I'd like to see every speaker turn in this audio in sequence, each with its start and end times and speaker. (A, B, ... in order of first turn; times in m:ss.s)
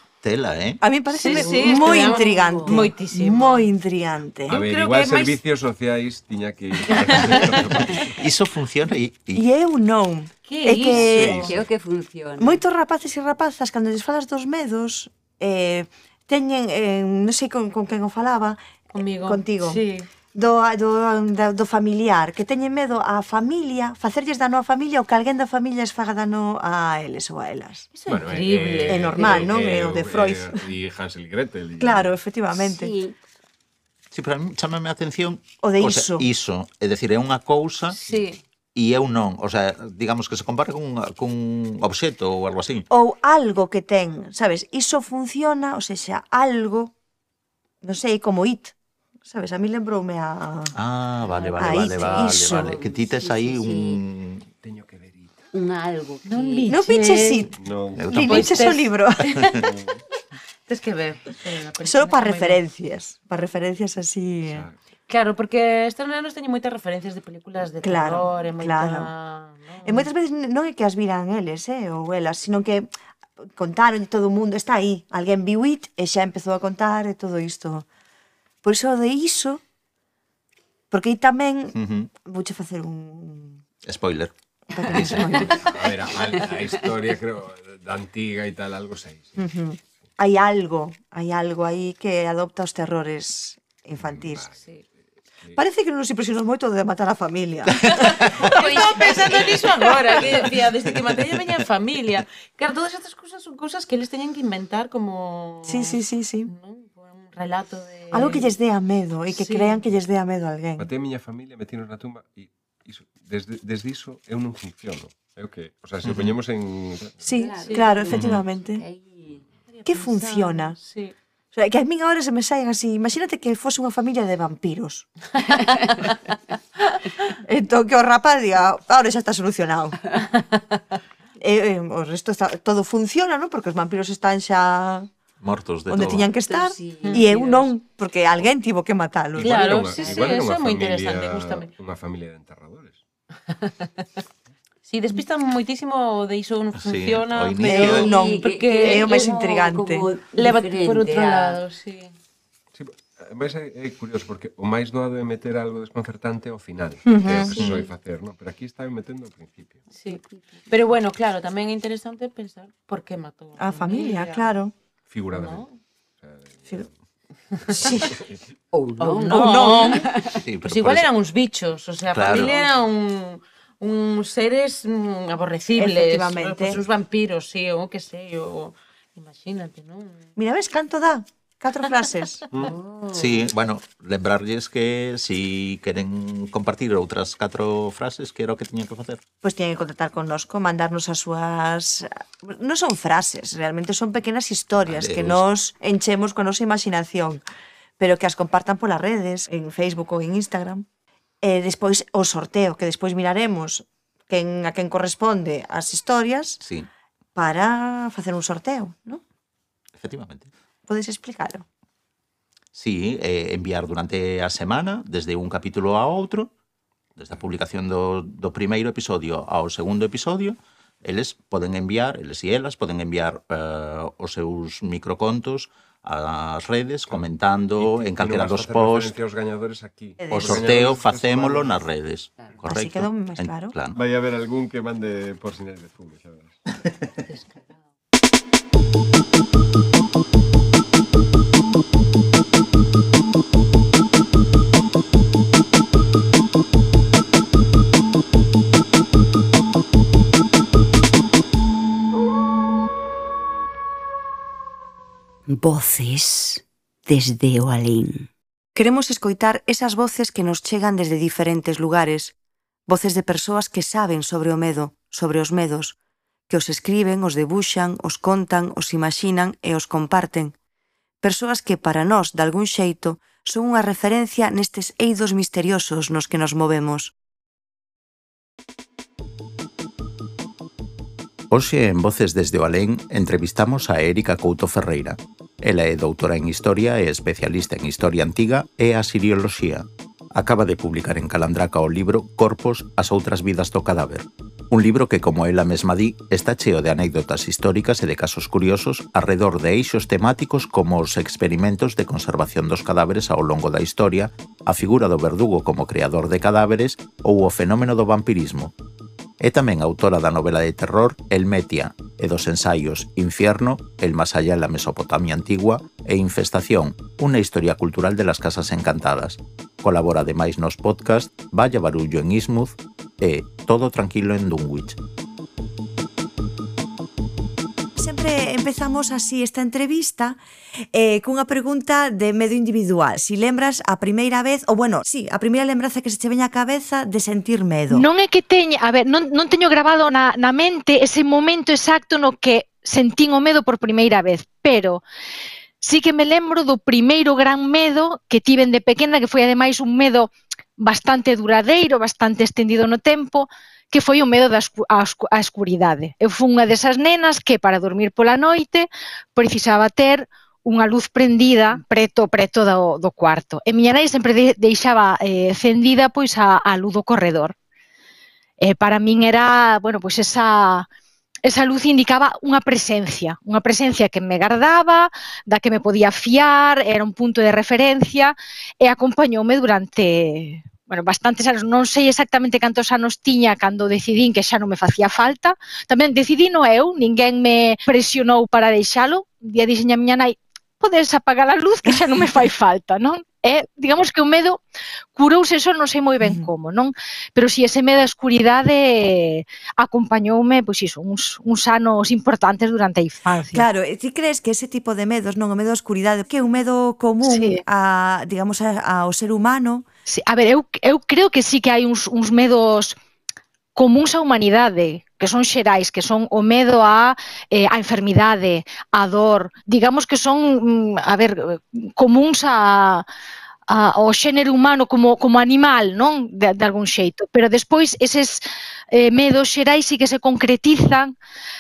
0:00.2-0:00.8 A
0:00.8-0:04.6 B
0:01.1-0:03.7 C
0:01.8-0:02.2 D
0:04.5-0:08.2 E
0:04.5-0:05.4 C
0:06.9-0:07.7 C
0:07.6-0:09.4 A
0:09.3-0:11.5 B
0:10.5-0:11.5 C
0:10.9-0:12.6 D
0:11.1-0:11.6 E
0:12.4-0:27.9 B
0:18.9-0:20.1 C
0:28.0-0:29.5 C
0:28.1-0:32.2 E
0:28.9-0:30.6 B
0:31.8-0:32.9 B
0:32.6-0:33.2 D
0:34.1-0:38.0 A
0:35.6-0:36.3 B
0:38.1-0:38.4 D
0:38.8-0:42.9 A
0:42.9-0:46.9 B
0:47.8-0:50.8 B
0:50.8-0:54.5 A
0:51.3-0:54.0 D
0:51.6-0:52.8 B
0:54.6-0:55.4 E
0:55.5-0:56.8 D
0:56.2-0:57.5 C
0:56.7-0:57.6 B
0:57.6-0:58.4 E
0:58.0-0:58.5 A
0:58.1-0:59.6 B
0:58.1-0:59.6 C
0:59.6-1:00.0 E
1:00.7-1:02.6 C
1:01.8-1:04.7 B
1:04.5-1:04.7 E
1:05.1-1:10.1 C
1:07.8-1:09.1 B
1:09.8-1:12.9 B
1:13.4-1:17.9 B
1:18.6-1:19.6 B
1:20.9-1:23.6 B
1:21.7-1:22.1 A
1:23.8-1:24.3 A
1:24.7-1:25.8 B
1:24.9-1:25.5 A
1:25.3-1:29.4 E
1:29.4-1:34.5 B
1:34.0-1:34.5 E
1:35.5-1:40.3 B
1:38.0-1:48.5 C
1:45.6-1:46.5 B
1:48.1-1:50.9 B
1:49.3-1:49.8 C
1:50.8-1:57.4 E
1:56.0-1:56.3 A
1:57.2-1:58.8 B
1:57.4-1:59.4 D
1:57.6-1:58.1 C
1:58.1-1:58.4 E
1:59.7-2:01.1 C
1:59.9-2:00.8 B
2:01.5-2:05.1 B
2:07.3-2:10.2 B
2:11.4-2:15.1 B
2:15.4-2:16.3 A
2:15.9-2:19.6 B
2:16.3-2:17.7 D
2:19.4-2:23.0 E
2:19.4-2:21.7 C
2:24.9-2:29.4 C
2:26.8-2:28.2 A
2:27.6-2:30.1 B
2:28.0-2:31.6 D
2:30.3-2:32.1 C
2:32.8-2:39.8 E
2:37.0-2:37.6 B
2:37.5-2:37.8 A
2:37.6-2:37.8 C
2:39.9-2:44.5 C
2:43.6-2:44.7 B
2:45.1-2:45.7 E
2:45.3-2:45.8 C
2:46.2-2:46.9 E
2:47.8-2:48.1 B
2:48.7-2:50.4 D
2:49.0-2:50.1 C
2:49.3-2:50.0 B
2:50.3-2:51.1 A
2:50.7-3:00.3 C
2:52.1-2:52.6 A
2:55.7-2:56.8 B
3:00.4-3:02.4 B
3:02.7-3:03.2 D
3:03.1-3:09.2 A
3:09.4-3:17.4 B
3:14.8-3:15.4 A
3:18.0-3:20.9 B
3:21.4-3:26.6 B
3:26.6-3:26.9 A
3:27.4-3:29.2 B
3:30.0-3:30.5 A
3:30.9-3:31.7 B
3:32.7-3:36.5 A
3:37.2-3:49.2 A
3:47.8-3:51.8 E
3:50.2-3:50.7 B
3:50.3-3:54.0 A
3:52.6-3:53.8 B
3:53.9-3:56.7 E
4:15.5-4:18.3 D
4:18.8-4:22.4 B
4:22.9-4:26.0 B
4:26.5-4:30.6 B
4:31.2-4:37.1 B
4:41.5-5:08.7 A
5:09.4-5:25.0 A
5:28.0-5:30.4 B
5:30.9-5:38.1 B
5:37.9-5:45.0 F
5:45.8-6:07.6 F
6:08.6-6:10.9 F
6:11.4-6:34.6 F
6:35.2-6:43.7 F
6:36.2-6:36.5 B
6:43.5-6:49.8 B
6:47.2-6:47.6 F
6:50.1-6:53.0 F
6:53.8-7:03.0 F
7:03.7-7:11.1 F